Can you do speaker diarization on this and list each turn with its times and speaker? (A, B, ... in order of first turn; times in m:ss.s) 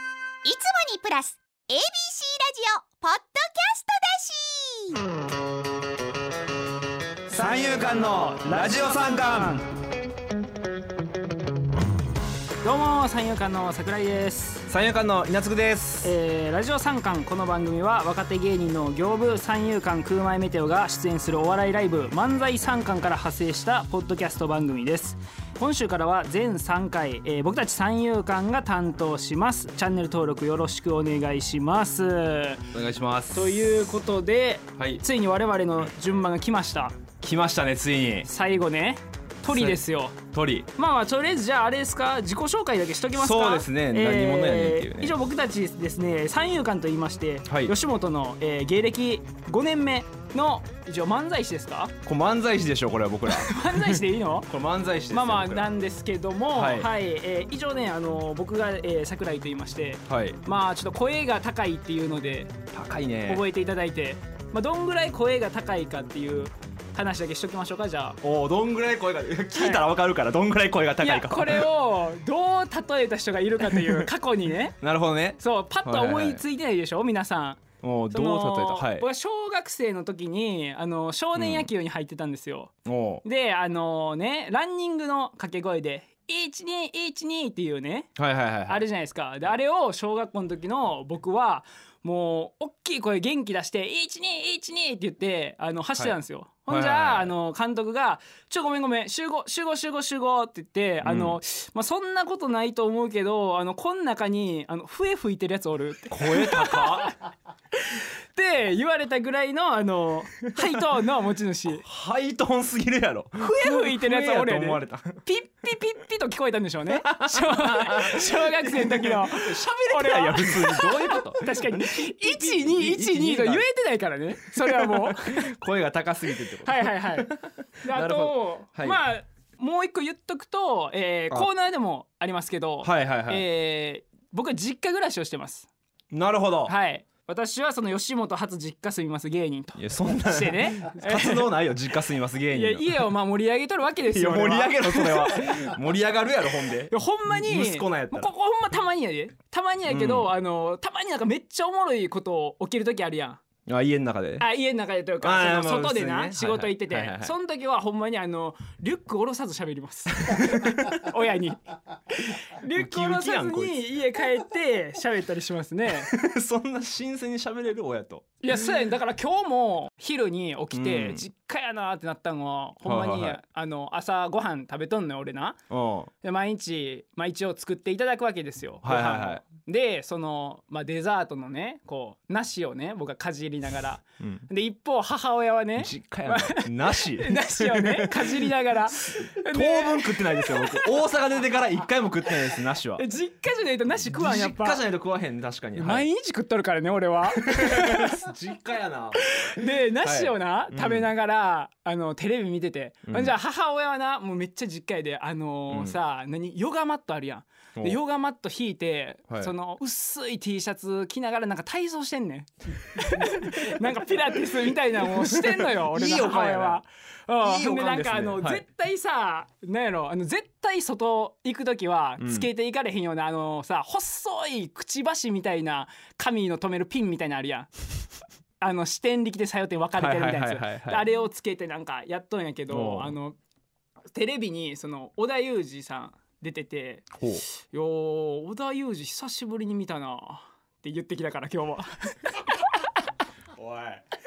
0:00.4-0:05.0 A
0:07.3-0:09.6 B
0:07.3-0:09.6 C
0:12.6-0:14.7 C
0:14.7-0:16.1 B
0:16.0-0:32.6 C
0:32.7-0:33.8 B
0:33.3-0:37.0 C
0:34.8-0:35.0 B
0:37.2-0:38.3 B
0:38.3-0:40.2 C
0:39.5-0:40.7 B
0:40.7-0:51.9 C
0:43.1-0:45.1 B
0:47.5-0:47.7 B
0:52.0-0:55.7 B
0:53.3-0:54.5 C
0:55.1-1:02.5 C
0:56.5-0:56.9 B
1:00.1-1:00.4 B
1:02.7-1:03.4 B
1:03.2-1:08.2 C
1:08.2-1:11.7 B
1:09.5-1:09.8 C
1:11.0-1:14.8 C
1:13.7-1:14.1 B
1:14.8-1:16.4 B
1:15.4-1:28.1 C
1:17.8-1:19.1 B
1:21.3-1:21.7 B
1:22.8-1:23.2 B
1:28.2-1:28.8 B
1:28.7-1:47.1 C
1:36.7-1:37.3 B
1:41.0-1:41.4 B
1:46.1-1:47.1 B
1:47.8-1:51.8 C
1:51.7-1:55.2 B
1:53.4-2:05.6 C
1:56.9-2:03.6 B
2:04.4-2:09.0 B
2:06.6-2:15.7 C
2:12.8-2:13.4 B
2:16.1-2:16.7 B
2:16.6-2:21.5 C
2:19.8-2:22.9 B
2:22.5-2:25.7 C
2:24.1-2:28.3 B
2:26.9-2:33.4 C
2:29.9-2:30.3 B
2:33.7-2:34.5 B
2:34.4-2:46.1 C
2:35.2-2:37.3 B
2:40.3-2:40.9 B
2:42.7-2:43.8 B
2:46.0-2:48.2 B
2:48.4-2:55.6 C
2:50.7-2:51.2 B
2:52.8-2:53.4 B
2:55.7-2:56.1 B
2:56.2-3:11.0 C
2:58.8-2:59.4 B
3:05.8-3:13.0 B
3:12.9-3:14.8 C
3:14.0-3:16.0 B
3:15.8-3:18.2 C
3:17.3-3:21.1 B
3:19.2-3:47.7 C
3:23.1-3:23.3 B
3:25.7-3:25.9 B
3:33.0-3:33.8 B
3:35.0-3:36.8 B
3:37.4-3:38.6 B
3:42.2-3:42.5 B
3:48.6-3:53.4 C
3:50.0-3:51.0 B
3:52.7-3:53.1 B
3:54.1-4:03.1 C
4:03.6-4:04.0 B